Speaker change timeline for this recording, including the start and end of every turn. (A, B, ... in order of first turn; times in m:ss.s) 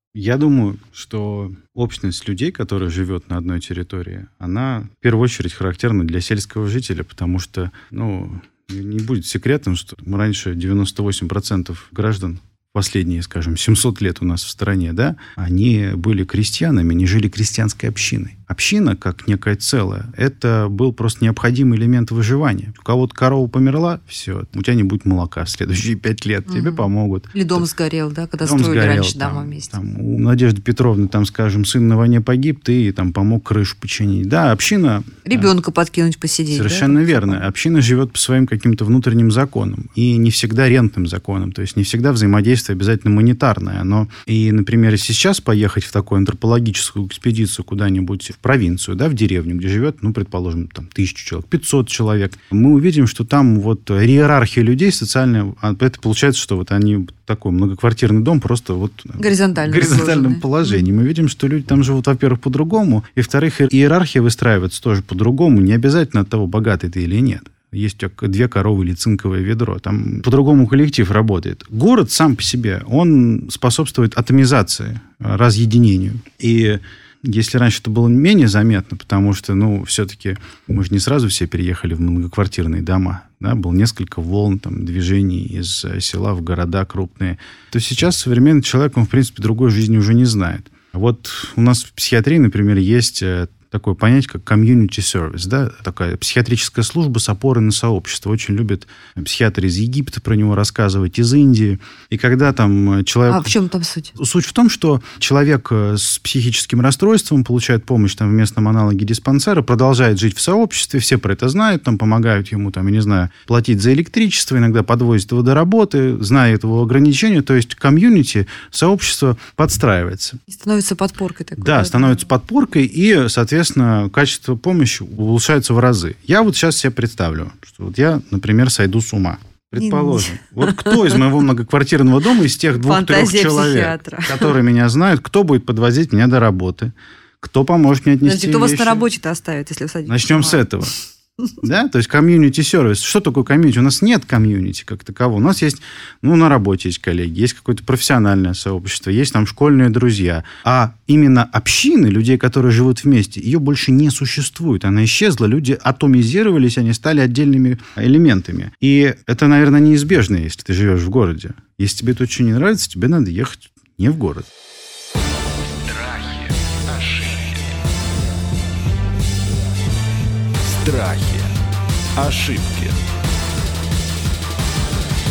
0:00.1-0:27.6 A
0:26.5-0:29.7 B
0:28.4-0:35.5 A
0:35.2-0:37.4 B
0:36.5-1:43.5 A
0:59.2-1:00.9 B
1:43.3-1:44.1 B
1:44.2-2:00.4 A
2:00.5-2:02.3 B
2:01.6-2:19.0 A
2:09.8-2:11.2 B
2:12.7-2:14.6 B
2:18.2-2:20.7 B
2:20.1-2:20.9 A
2:21.6-2:44.5 A
2:45.8-2:47.8 C
2:50.6-2:51.5 C
2:52.2-2:53.0 C